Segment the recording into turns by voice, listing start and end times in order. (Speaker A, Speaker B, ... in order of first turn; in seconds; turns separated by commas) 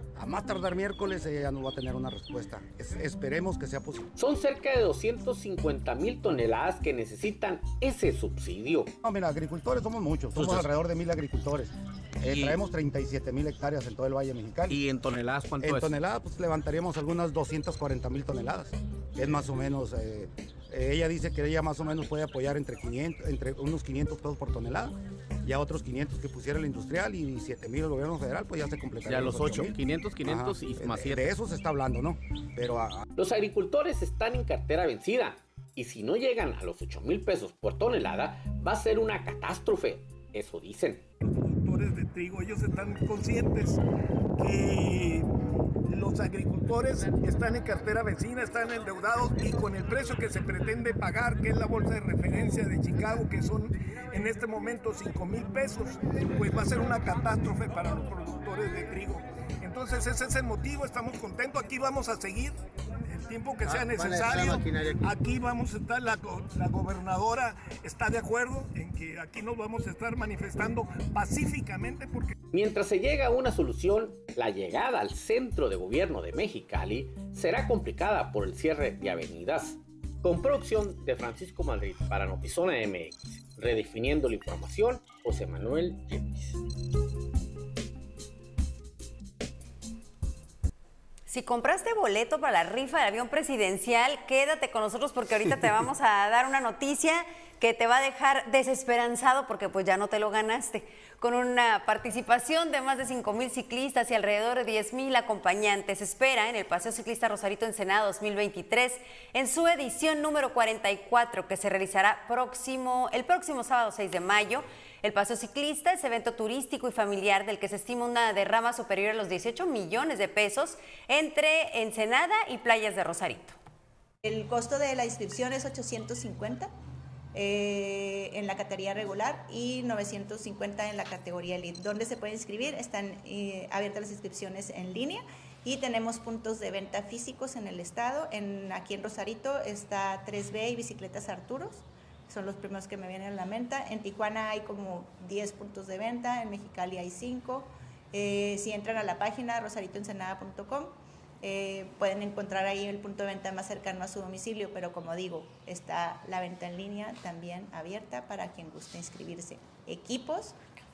Speaker A: 0.1-4.1, Speaker B: 4.2-8.9, Speaker A: 9.0-14.8, Speaker C: 10.3-10.7, Speaker C: 12.3-12.6, Speaker C: 14.7-16.0, Speaker A: 15.6-33.0, Speaker C: 29.1-31.3, Speaker B: 33.2-41.0, Speaker D: 41.2-43.8, Speaker D: 44.4-45.3, Speaker D: 45.9-62.6, Speaker D: 63.1-72.3, Speaker C: 64.2-64.6, Speaker B: 72.5-86.6, Speaker E: 91.3-123.5, Speaker F: 124.2-126.7, Speaker F: 127.3-160.6